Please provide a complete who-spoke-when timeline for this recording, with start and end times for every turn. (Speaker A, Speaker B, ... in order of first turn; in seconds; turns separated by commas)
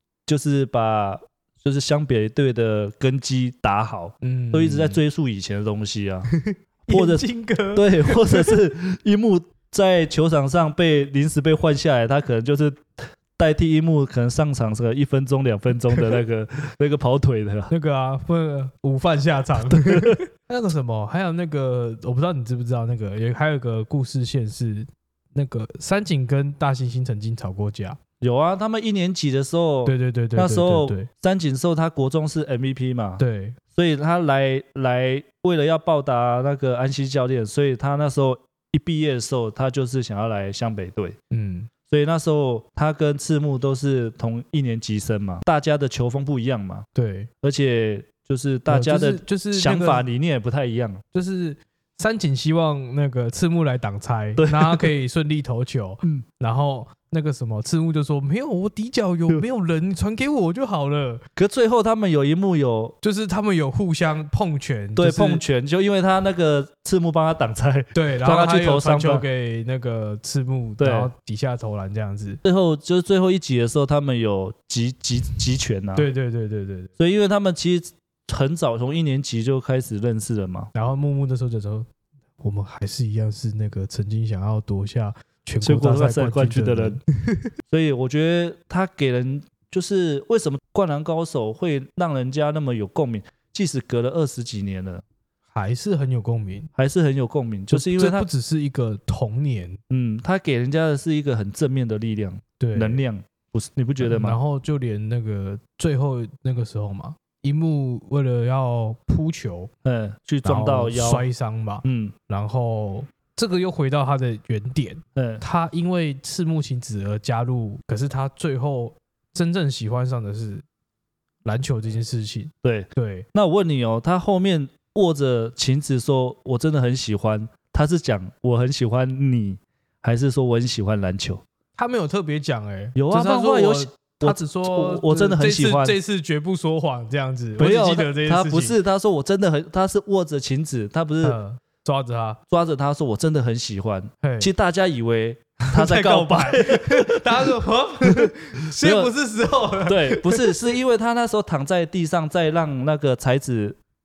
Speaker A: 0.3-6.3, Speaker B: 4.2-5.0, Speaker B: 6.3-8.6, Speaker A: 6.9-17.7, Speaker B: 17.7-28.0, Speaker A: 19.7-20.2, Speaker A: 28.2-33.2, Speaker B: 29.8-31.1, Speaker B: 33.2-33.6, Speaker A: 33.7-41.1, Speaker B: 41.3-41.7, Speaker A: 41.9-46.8, Speaker B: 46.9-47.3, Speaker A: 47.4-51.0, Speaker B: 48.7-50.0, Speaker B: 51.1-61.2, Speaker A: 54.4-54.9, Speaker A: 61.4-63.0, Speaker B: 63.0-65.4, Speaker A: 65.0-69.2, Speaker B: 67.9-72.4, Speaker A: 70.8-71.1, Speaker A: 72.4-76.1, Speaker B: 75.9-76.9, Speaker A: 77.0-80.7, Speaker B: 80.7-81.9, Speaker B: 82.4-87.5, Speaker A: 85.6-87.0, Speaker A: 87.7-95.0, Speaker B: 95.5-96.7, Speaker A: 96.8-98.3, Speaker B: 97.7-99.8, Speaker A: 99.9-104.4, Speaker B: 102.6-103.0, Speaker B: 104.0-109.7, Speaker A: 109.8-111.2, Speaker B: 110.4-120.6, Speaker A: 111.8-112.1, Speaker A: 115.2-115.4, Speaker B: 121.4-123.3, Speaker A: 122.6-131.4, Speaker B: 131.8-138.8, Speaker A: 132.9-136.0, Speaker A: 137.6-141.4, Speaker B: 141.2-142.4, Speaker A: 142.5-149.1, Speaker B: 144.2-144.5, Speaker B: 145.6-150.8, Speaker A: 149.8-153.8